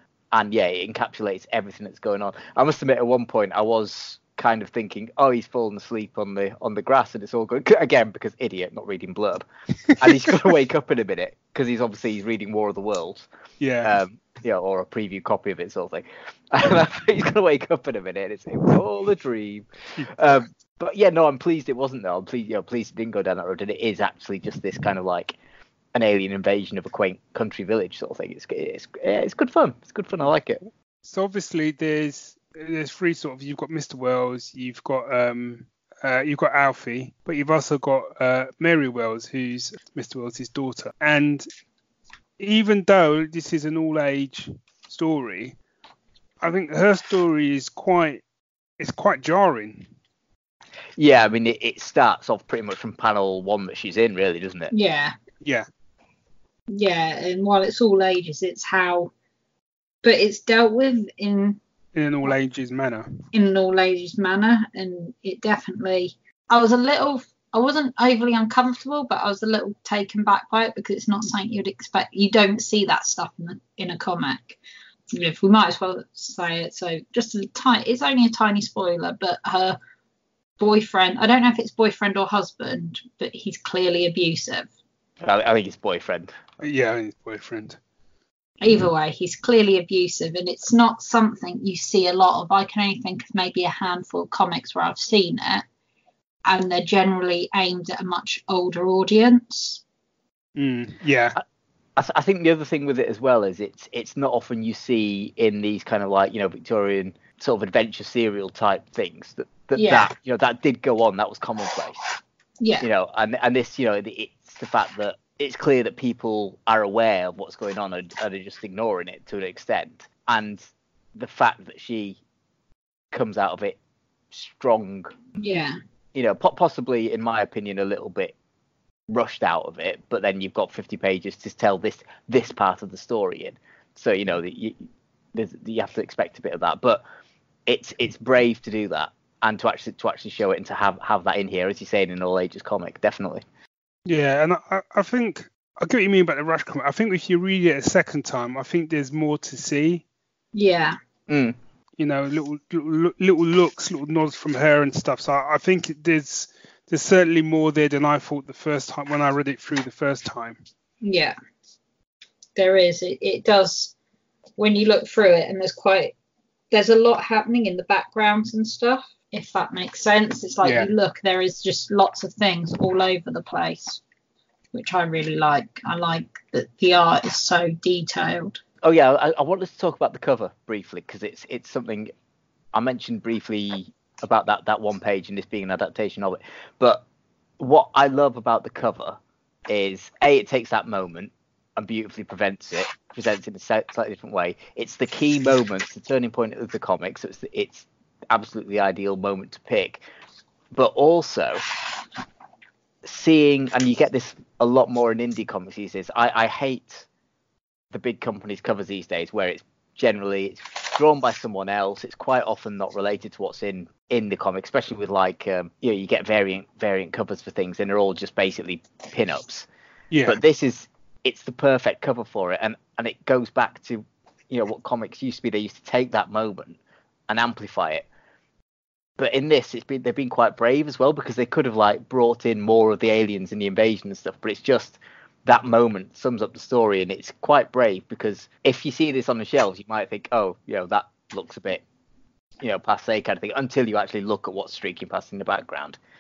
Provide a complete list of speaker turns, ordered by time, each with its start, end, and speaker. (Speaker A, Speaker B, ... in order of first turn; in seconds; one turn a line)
Speaker A: 0.3-9.4
Speaker A: 10.0-13.3
Speaker B: 10.0-10.4
Speaker B: 13.6-14.0
Speaker A: 13.8-25.4
Speaker A: 25.9-30.6
Speaker B: 31.0-41.5
Speaker B: 42.4-45.6
Speaker B: 46.4-48.2
Speaker B: 48.8-49.9
Speaker A: 51.0-54.7
Speaker C: 54.7-55.1
Speaker C: 56.7-59.1
Speaker C: 60.0-61.6
Speaker B: 62.0-63.2
Speaker C: 63.3-74.6
Speaker C: 75.1-79.8
Speaker C: 80.6-84.7
Speaker A: 85.2-86.4
Speaker B: 86.6-87.8
Speaker C: 88.6-95.7
Speaker C: 96.5-99.8
Speaker B: 100.6-101.4
Speaker A: 102.0-112.1
Speaker C: 109.8-110.1
Speaker C: 112.6-112.9
Speaker A: 112.8-120.6
Speaker A: 121.2-122.2
Speaker A: 123.1-123.8
Speaker A: 124.3-125.2
Speaker C: 125.4-125.8
Speaker A: 126.1-128.3
Speaker A: 129.1-134.8
Speaker A: 135.3-137.0
Speaker A: 137.7-143.4
Speaker B: 144.1-150.0
Speaker C: 150.5-151.0
Speaker A: 151.3-151.6
Speaker B: 152.0-160.6
Speaker C: 161.0-161.3
Speaker C: 162.6-163.9
Speaker C: 164.6-166.1
Speaker C: 166.7-174.0
Speaker B: 170.6-170.9
Speaker C: 174.7-178.6
Speaker A: 178.8-182.1
Speaker A: 182.7-187.0
Speaker A: 187.6-189.2
Speaker A: 189.7-200.0
Speaker A: 200.7-201.6
Speaker A: 203.0-207.1
Speaker A: 207.9-219.7
Speaker B: 220.1-220.4
Speaker A: 220.2-226.8
Speaker A: 227.3-228.1
Speaker A: 229.2-241.8
Speaker A: 242.6-246.0